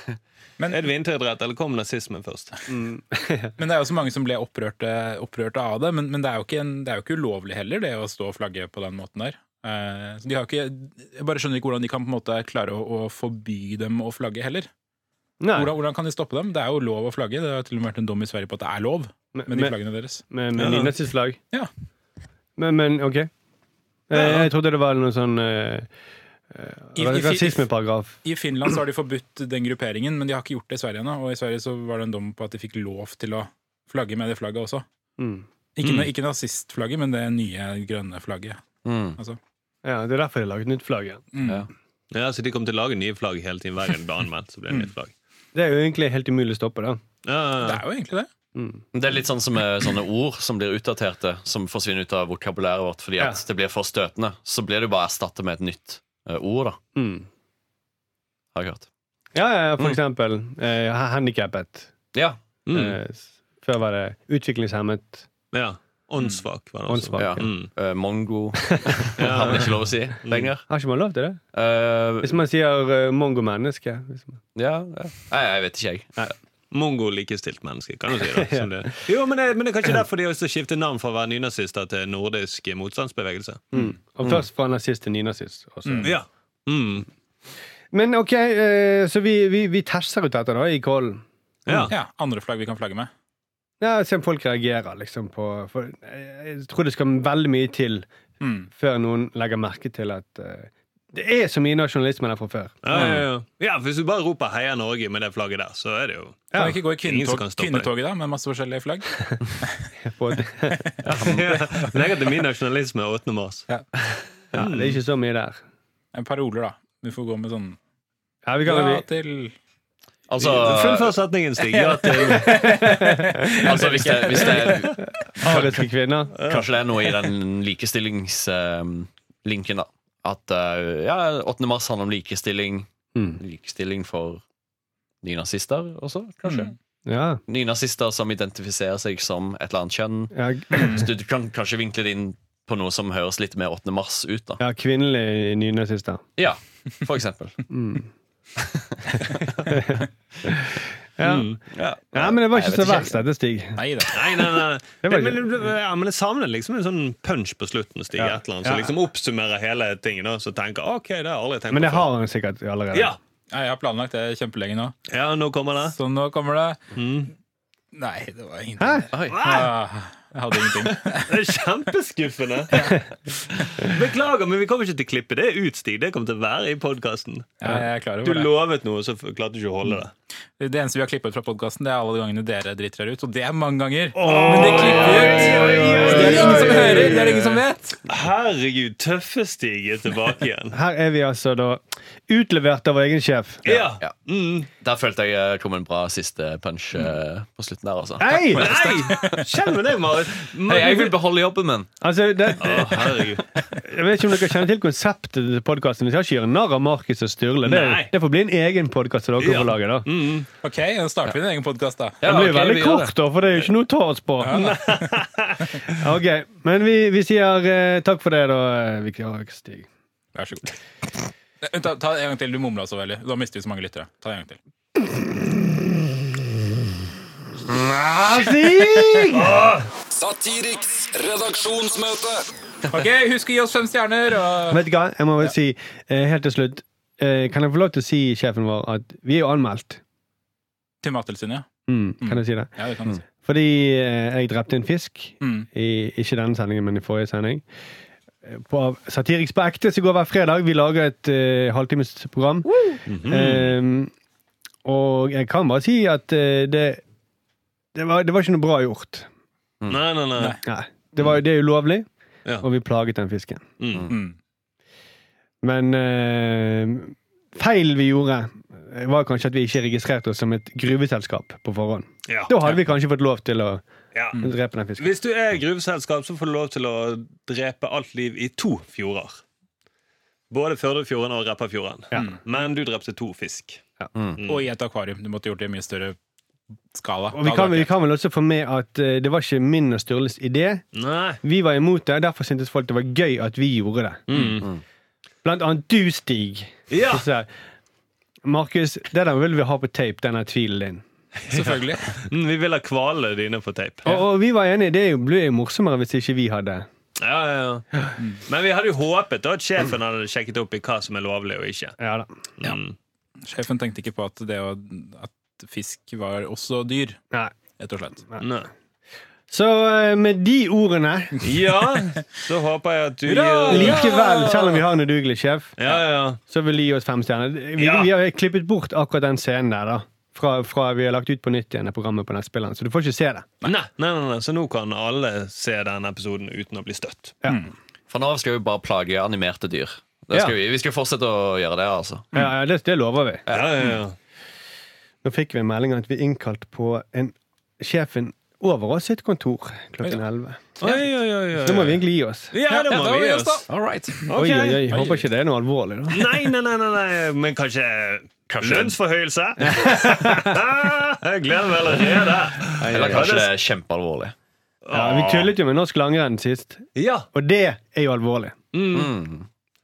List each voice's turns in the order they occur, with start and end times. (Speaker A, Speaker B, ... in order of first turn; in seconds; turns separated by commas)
Speaker A: 0.6-0.9, Speaker B: 0.7-2.6, Speaker C: 2.7-3.5, Speaker A: 3.6-14.7, Speaker C: 15.4-15.7, Speaker A: 15.6-20.2, Speaker C: 19.4-21.4, Speaker B: 20.6-20.9, Speaker C: 22.6-23.3, Speaker C: 24.1-25.9, Speaker B: 24.1-24.5, Speaker C: 26.5-28.2, Speaker A: 27.0-27.7, Speaker A: 28.2-34.9, Speaker C: 35.2-35.5, Speaker A: 35.8-38.6, Speaker D: 38.9-39.2, Speaker C: 39.8-41.2, Speaker A: 41.3-41.6, Speaker B: 42.1-45.1, Speaker C: 45.5-47.0, Speaker B: 47.2-47.8, Speaker A: 47.6-48.3, Speaker C: 48.6-48.8, Speaker D: 48.9-56.8, Speaker C: 57.0-57.3, Speaker D: 58.5-58.9, Speaker C: 59.4-61.9, Speaker D: 62.1-62.4, Speaker B: 62.7-63.0, Speaker C: 62.7-65.3, Speaker B: 65.5-67.7, Speaker C: 66.9-67.5, Speaker D: 67.2-70.7, Speaker B: 69.2-69.7, Speaker B: 70.2-70.5, Speaker C: 70.7-71.4, Speaker D: 71.5-72.4, Speaker C: 72.2-74.4, Speaker D: 74.5-76.2, Speaker B: 76.7-83.8, Speaker C: 78.4-78.7, Speaker C: 83.7-86.2, Speaker A: 85.8-86.2, Speaker B: 86.0-87.1, Speaker C: 87.9-91.9, Speaker B: 91.7-91.9, Speaker A: 91.9-93.1, Speaker C: 93.8-98.1, Speaker A: 98.4-98.7, Speaker C: 98.7-102.8, Speaker B: 102.8-106.5, Speaker A: 102.9-103.2, Speaker C: 106.5-106.8, Speaker A: 106.5-109.1, Speaker B: 107.0-107.9, Speaker A: 109.6-109.9, Speaker C: 110.0-110.9, Speaker D: 111.0-111.7, Speaker B: 111.2-113.7, Speaker C: 114.5-115.6, Speaker B: 114.6-115.0, Speaker A: 116.1-117.8, Speaker C: 118.5-119.0, Speaker A: 118.6-119.5, Speaker D: 120.3-121.2, Speaker B: 120.4-122.8, Speaker A: 121.7-124.9, Speaker C: 122.6-123.3, Speaker D: 123.7-125.0, Speaker B: 123.8-124.9, Speaker A: 125.4-125.8, Speaker C: 125.4-126.4, Speaker B: 126.3-126.7, Speaker D: 126.5-134.4, Speaker D: 135.2-136.7, Speaker A: 136.4-136.7, Speaker C: 137.1-137.4, Speaker D: 137.5-144.6, Speaker C: 140.3-141.1, Speaker A: 140.7-141.0, Speaker C: 144.6-146.2, Speaker D: 146.4-147.6, Speaker C: 147.7-148.1, Speaker D: 148.7-149.0, Speaker C: 149.3-151.6, Speaker B: 151.2-151.6, Speaker D: 151.7-153.2, Speaker C: 152.1-155.5, Speaker A: 153.8-154.1, Speaker B: 154.1-162.1, Speaker C: 158.2-158.9, Speaker C: 161.7-163.2, Speaker B: 162.9-163.2, Speaker A: 163.5-164.9, Speaker B: 165.1-165.9, Speaker A: 165.9-166.8, Speaker B: 166.9-167.3, Speaker A: 167.9-171.3, Speaker C: 168.8-169.1, Speaker D: 169.1-169.4, Speaker B: 169.3-169.7, Speaker B: 171.3-172.8, Speaker B: 173.8-180.1, Speaker A: 177.6-178.5, Speaker A: 180.6-188.0, Speaker B: 184.2-187.5, Speaker C: 184.3-187.3, Speaker B: 188.1-190.8, Speaker C: 190.7-193.9, Speaker B: 193.7-194.7, Speaker D: 194.8-199.4, Speaker C: 198.2-198.7, Speaker B: 198.5-201.2, Speaker A: 198.9-199.2, Speaker D: 200.7-201.9, Speaker C: 202.0-210.1, Speaker B: 202.6-203.5, Speaker B: 207.7-208.1, Speaker B: 209.4-210.5, Speaker A: 210.6-212.2, Speaker D: 212.2-213.2, Speaker C: 212.2-214.6, Speaker A: 214.4-215.1, Speaker B: 214.5-215.7, Speaker C: 215.9-219.9, Speaker A: 220.3-220.7, Speaker A: 221.6-224.6, Speaker C: 225.1-225.7, Speaker C: 227.7-229.6, Speaker B: 229.3-229.9, Speaker E: 230.1-232.4, Speaker A: 232.9-234.8, Speaker C: 234.7-240.0, Speaker A: 241.0-241.7, Speaker C: 241.9-242.7, Speaker A: 242.2-243.2, Speaker C: 243.4-247.7, Speaker A: 245.4-245.7, Speaker C: 248.5-254.1, Speaker B: 253.1-253.7, Speaker C: 254.8-257.0, Speaker C: 257.9-259.3, Speaker B: 259.9-260.6, Speaker C: 260.6-262.1, Speaker C: 262.6-263.6, Speaker B: 263.8-264.1, Speaker A: 264.1-264.4, Speaker C: 265.6-273.8, Speaker B: 272.3-272.5, Speaker B: 274.1-274.4, Speaker C: 274.4-275.1, Speaker B: 275.0-279.4, Speaker B: 280.5-283.8, Speaker D: 284.1-284.4, Speaker B: 284.4-284.6, Speaker A: 284.5-286.2, Speaker A: 286.9-287.9, Speaker C: 287.3-290.9, Speaker B: 290.9-291.4, Speaker C: 291.4-294.2, Speaker B: 294.3-294.7, Speaker A: 294.3-294.6, Speaker C: 295.4-297.5, Speaker B: 296.9-297.2, Speaker C: 298.5-301.0, Speaker B: 301.5-304.1, Speaker A: 301.5-302.1, Speaker C: 304.1-306.9, Speaker B: 307.2-307.9, Speaker A: 308.2-308.4, Speaker B: 308.5-312.0, Speaker C: 312.0-312.3, Speaker B: 312.6-312.9, Speaker A: 313.5-317.2, Speaker A: 317.8-318.2, Speaker B: 318.4-318.7, Speaker C: 319.5-321.5, Speaker B: 321.4-324.2, Speaker A: 323.3-324.8, Speaker C: 323.7-325.8, Speaker B: 325.8-326.4, Speaker C: 326.4-333.5, Speaker B: 327.8-328.1, Speaker B: 333.6-337.4, Speaker C: 337.4-337.7, Speaker D: 338.1-342.3, Speaker C: 342.3-343.4, Speaker D: 343.5-343.9, Speaker B: 343.5-344.2, Speaker C: 345.2-350.8, Speaker B: 350.8-352.0, Speaker C: 351.6-352.5, Speaker B: 352.5-353.6, Speaker A: 352.6-354.3, Speaker D: 353.7-354.2, Speaker B: 354.3-355.2, Speaker C: 354.4-356.3, Speaker B: 356.1-363.5, Speaker D: 358.5-358.9, Speaker C: 359.6-360.5, Speaker C: 362.8-363.4, Speaker D: 362.9-364.4, Speaker B: 364.9-365.5, Speaker C: 364.9-368.6, Speaker B: 367.0-367.3, Speaker B: 368.7-369.1, Speaker D: 368.9-369.5